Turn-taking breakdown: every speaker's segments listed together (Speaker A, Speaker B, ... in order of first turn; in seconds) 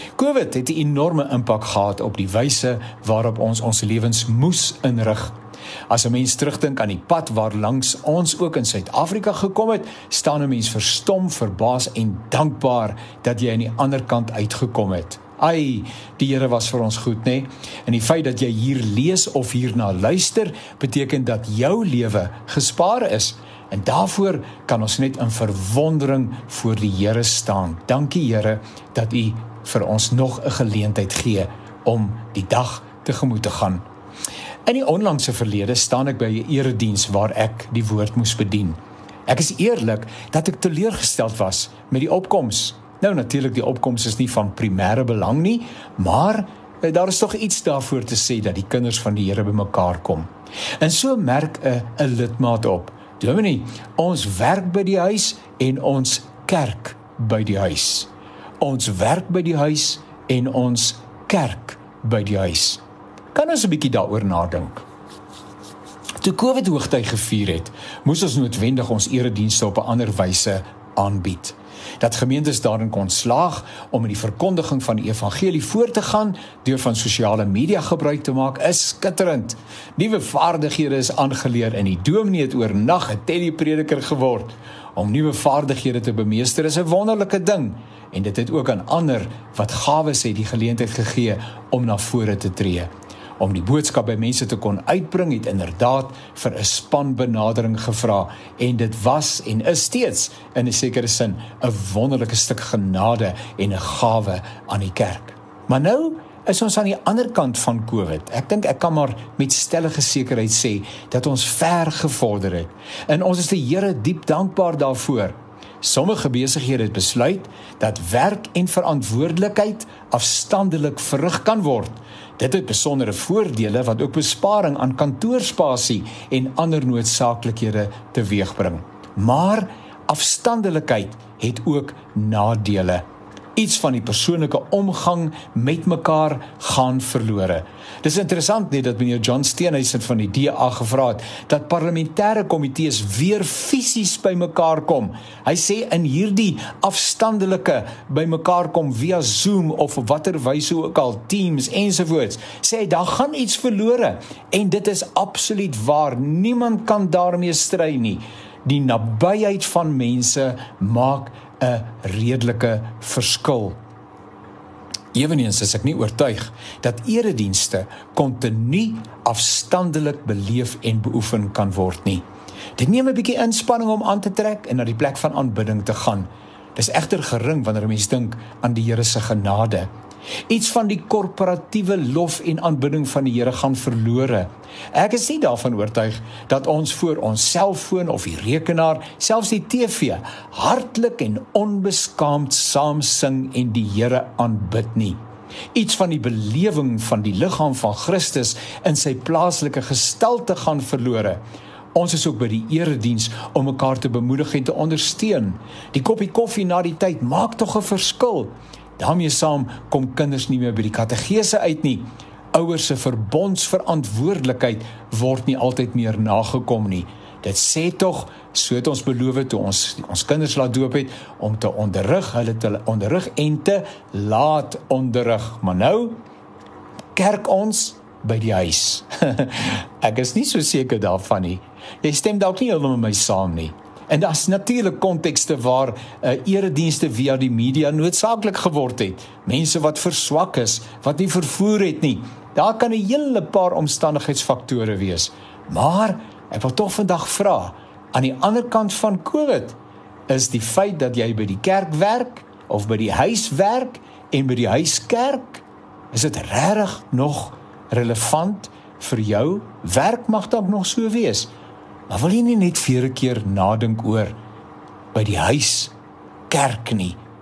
Speaker A: 0.2-5.3, 5.9-33.8, 34.7-50.3, 50.8-58.1, 58.6-62.8, 63.3-64.8, 66.2-133.0, 133.6-163.8, 165.1-172.2, 172.8-179.9, 180.5-195.2, 195.7-201.4, 201.9-226.2, 227.2-249.8, 250.3-261.5, 262.1-264.4, 265.1-265.9, 266.5-267.2